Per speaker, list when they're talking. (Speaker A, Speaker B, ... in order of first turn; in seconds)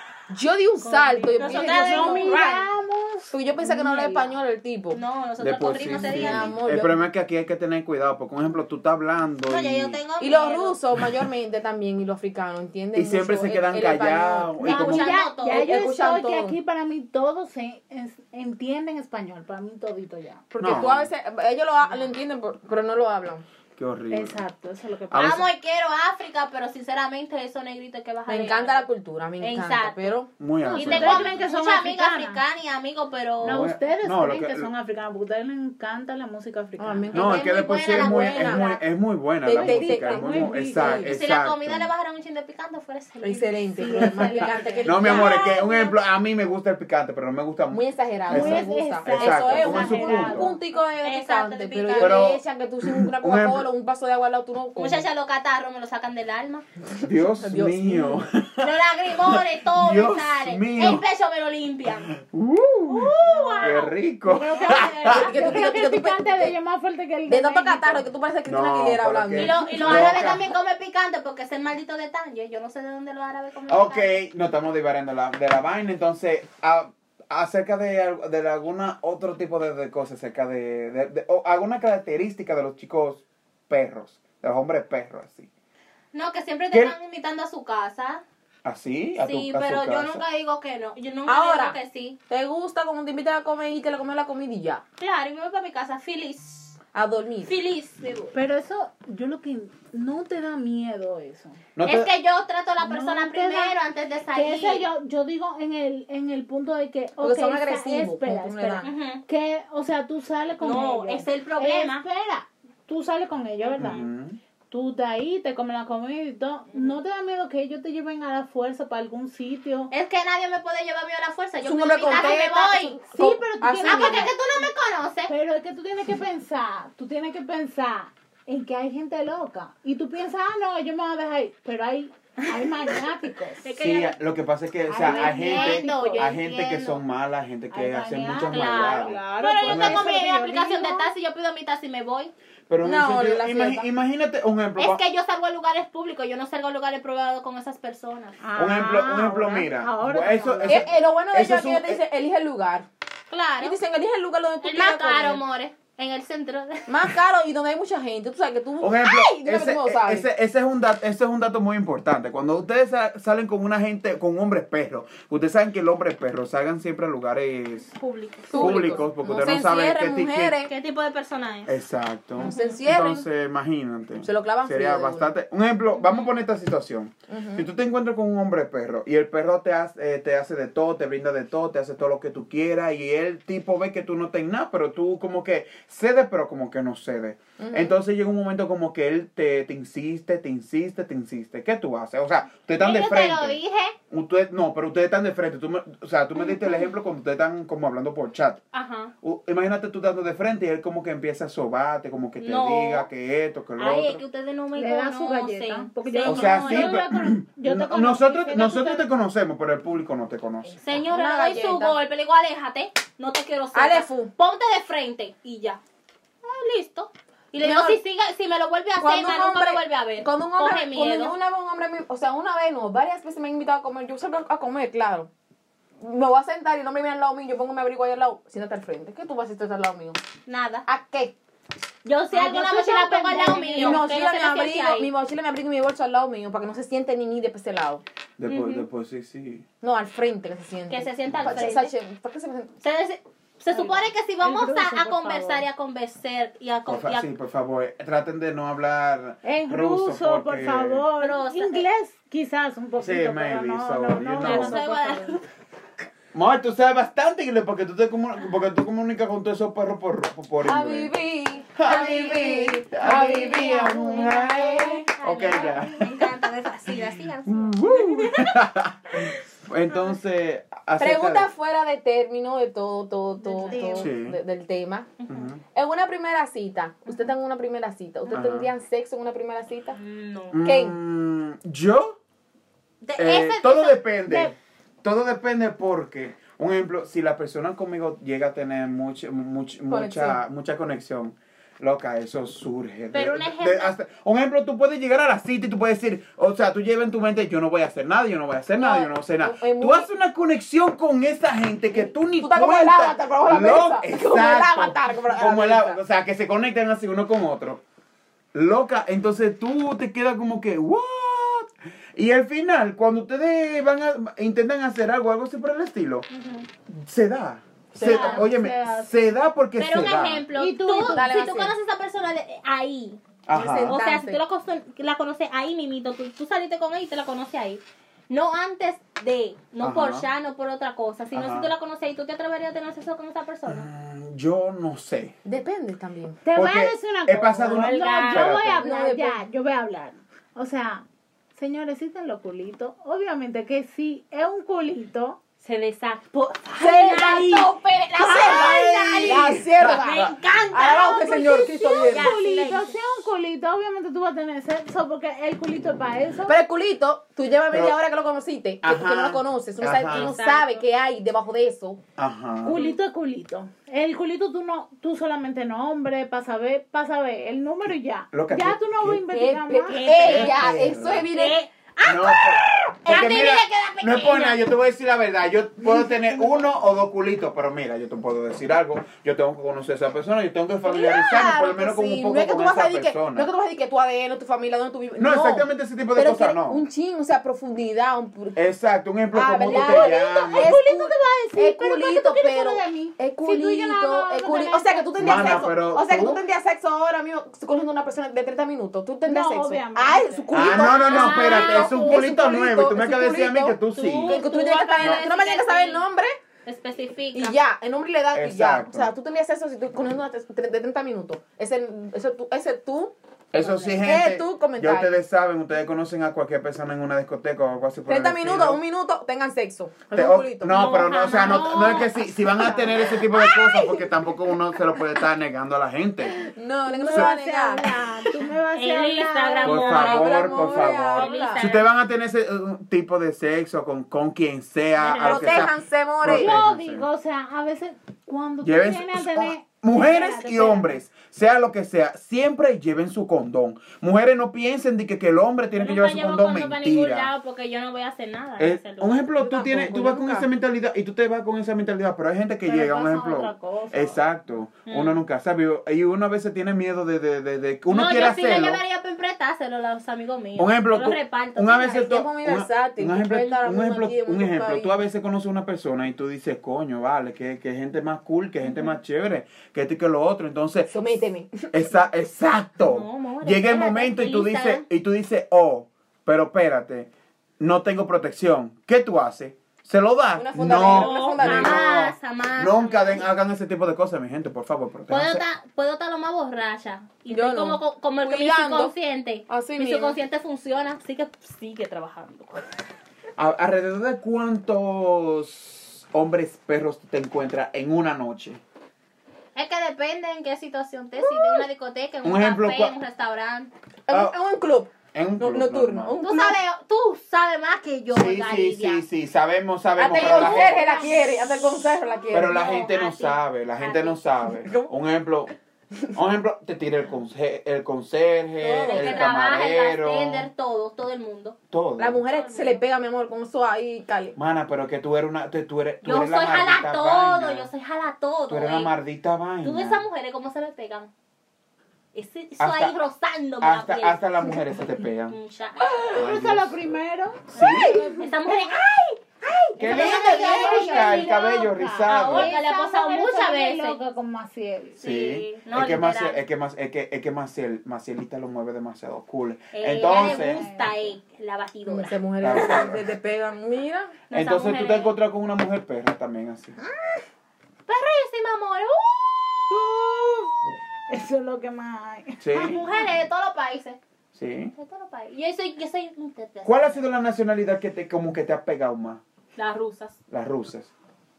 Speaker A: 0.3-2.6, 3.3-5.0, 5.9-7.0, 10.2-16.6, 20.5-23.4, 28.3-30.3, 36.8-38.7, 39.4-41.1, 43.2-45.4, 47.7-55.0, 56.9-58.3, 65.1-66.5, 67.3-70.2, 91.3-91.8, 92.3-94.8, 96.9-97.5, 107.2-108.9, 121.6-124.3, 142.8-143.8, 150.7-152.9, 153.6-155.4, 156.9-160.3, 168.5-170.7, 172.4-173.2, 174.2-175.3, 177.3-177.7, 187.6-187.9, 210.9-211.9, 213.7-214.3, 217.6-218.0, 219.0-225.3, 226.0-230.2, 230.8-231.3, 233.5-238.0, 239.8-242.7, 260.6-265.0, 271.0-275.1, 275.7-280.0, 280.6-280.9, 289.9-290.4, 298.8-300.1, 301.9-306.0, 317.9-318.4, 321.0-321.7, 323.5-324.4, 335.4-336.4, 338.8-339.4, 346.8-352.3, 356.5-362.0, 369.3-371.6, 380.8-388.6, 389.3-406.4, 407.3-415.1, 418.1-421.7, 422.6-425.2, 426.4-427.9, 429.9-431.7, 435.2-436.6, 449.4-450.5, 461.9-464.9, 470.9-471.8, 480.4-481.9, 487.3-488.9, 489.5-490.2, 501.2-501.6, 504.1-506.6, 510.0-512.6, 514.5-514.9, 518.6-519.3, 522.0-524.4, 535.9-536.2, 537.6-538.1, 551.9-554.2
Speaker B: 0.8-2.6, 4.9-6.6, 9.4-10.8, 14.6-15.7, 25.1-28.9, 29.4-30.1, 30.7-33.7, 37.1-38.8, 41.0-43.7, 45.0-46.0, 51.0-52.3, 54.8-56.6, 58.6-62.1, 62.9-63.9, 64.4-65.7, 69.3-74.1, 86.1-88.2, 89.2-92.2, 95.0-96.8, 97.5-98.3, 101.8-104.9, 108.8-109.2, 110.6-112.0, 119.9-123.0, 123.8-125.3, 132.4-133.0, 133.6-134.2, 135.0-137.0, 138.5-142.3, 144.8-148.4, 153.3-153.8, 154.6-157.1, 167.9-169.0, 170.7-171.7, 172.4-172.8, 175.9-176.3, 192.8-193.9, 196.4-196.8, 198.7-199.1, 202.4-203.1, 203.8-207.0, 210.8-215.8, 216.4-221.4, 230.5-230.8, 232.0-235.1, 238.4-238.9, 240.9-241.9, 242.8-247.3, 251.2-251.8, 254.4-255.4, 265.1-268.6, 269.9-270.1, 273.4-274.1, 275.2-275.5, 277.1-277.3, 279.9-280.6, 283.0-284.0, 293.1-293.9, 316.3-316.7, 318.0-318.4, 319.8-323.2, 323.8-333.9, 337.7-338.6, 345.6-352.9, 359.8-360.8, 362.7-363.0, 369.9-374.6, 400.7-402.1, 403.9-406.0, 406.6-407.6, 420.6-422.2, 428.7-431.8, 435.0-435.7, 445.7-449.3, 454.9-455.2, 457.9-462.1, 472.8-474.8, 480.7-483.3, 485.1-492.7, 499.5-503.7, 506.2-509.0, 510.1-514.2, 518.8-521.6, 522.3-522.8, 526.0-528.9, 529.6-531.1, 532.1-534.2, 535.3-535.9, 537.5-539.0, 539.8-541.4, 542.1-544.0, 545.0-546.4, 549.7-552.2, 554.3-555.1, 557.9-559.7, 562.5-564.0, 564.7-567.0, 569.5-570.2
Speaker C: 1.2-4.3, 14.6-20.4, 24.1-25.4, 30.6-32.4, 33.4-37.1, 39.5-41.1, 43.7-45.2, 48.3-50.6, 63.2-68.1, 98.3-101.6, 102.8-103.8, 104.3-114.1, 114.7-119.9, 123.1-124.3, 125.3-133.7, 134.9-136.4, 137.7-141.1, 148.4-150.9, 204.8-209.1, 232.3-234.1, 243.7-245.6, 249.4-255.4, 263.5-264.9, 273.5-274.0, 284.3-284.5, 318.0-319.1, 320.6-321.4, 336.4-345.4, 351.4-356.6, 362.6-370.2, 389.6-395.7, 399.2-402.2, 426.9-430.1, 436.3-441.0, 452.6-454.2, 536.1-538.3, 539.8-545.0, 550.1-551.1, 559.7-560.5, 561.1-562.9
Speaker D: 5.4-10.0, 12.9-15.1, 20.6-21.1, 23.8-24.4, 25.1-25.5, 30.4-31.3, 33.4-34.7, 37.1-41.9, 44.8-50.5, 52.0-53.7, 57.0-61.0, 62.1-65.3, 68.5-70.5, 73.7-85.5, 88.6-90.2, 101.8-102.1, 113.8-114.4, 133.8-140.1, 142.7-145.0, 148.6-152.0, 158.8-167.9, 168.5-170.5, 171.7-193.6, 194.1-198.6, 199.2-204.2, 206.2-210.8, 238.4-239.6, 241.3-241.7, 246.9-251.0, 253.0-254.8, 256.3-261.1, 261.8-266.2, 267.4-271.5, 273.9-274.4, 275.3-275.6, 278.3-278.7, 280.5-282.2, 283.1-307.8, 308.5-316.3, 316.9-320.4, 323.4-324.0, 329.8-330.3, 331.3-331.7, 333.7-335.3, 336.5-338.9, 348.3-350.3, 357.7-358.0, 358.8-360.3, 362.2-362.8, 368.3-369.2, 370.2-371.3, 372.0-383.5, 385.2-386.8, 388.6-390.7, 395.2-396.4, 400.5-404.4, 405.0-405.2, 408.3-409.1, 413.5-418.8, 420.1-426.4, 429.6-437.0, 438.6-447.3, 448.6-458.8, 460.6-471.2, 471.7-485.4, 493.4-498.6, 502.2-502.9, 504.1-504.3, 505.1-506.1, 508.1-510.8, 512.3-515.5, 516.1-520.5, 521.7-522.2, 524.4-527.7, 528.5-530.0, 532.6-533.0, 533.6-535.4, 536.1-536.8, 537.5-538.0, 539.8-542.5, 545.0-550.6, 552.4-553.1, 554.3-556.8, 562.4-562.9, 564.3-564.7, 566.6-569.2, 570.3-570.9